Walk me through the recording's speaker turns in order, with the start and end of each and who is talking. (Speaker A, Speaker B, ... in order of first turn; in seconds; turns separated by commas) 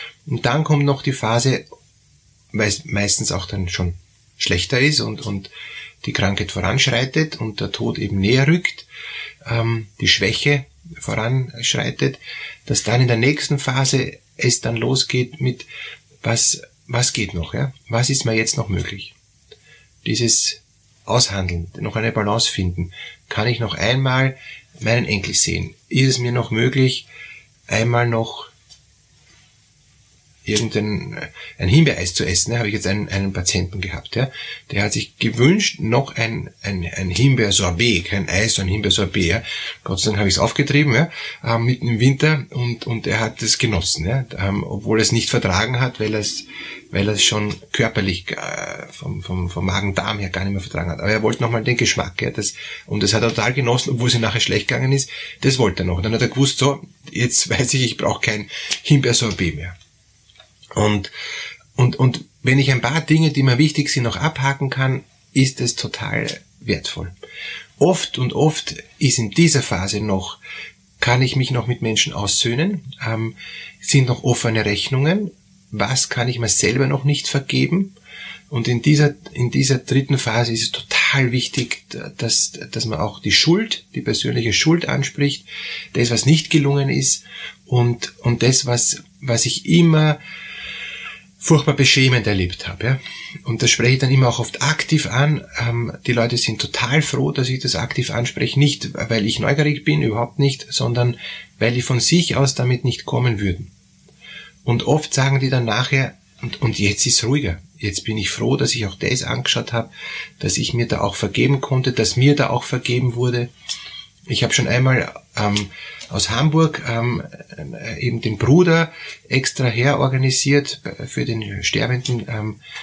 Speaker A: 0.3-1.6, Speaker A: 2.5-5.5, Speaker A: 6.0-8.9, Speaker A: 9.4-15.7, Speaker A: 16.2-19.1, Speaker A: 20.0-27.1, Speaker A: 27.7-28.5, Speaker A: 30.4-59.8, Speaker A: 60.7-61.1, Speaker A: 61.8-67.1, Speaker A: 67.8-70.4, Speaker A: 71.0-77.9, Speaker A: 78.5-90.2, Speaker A: 91.4-103.7, Speaker A: 104.6-113.5, Speaker A: 114.3-122.6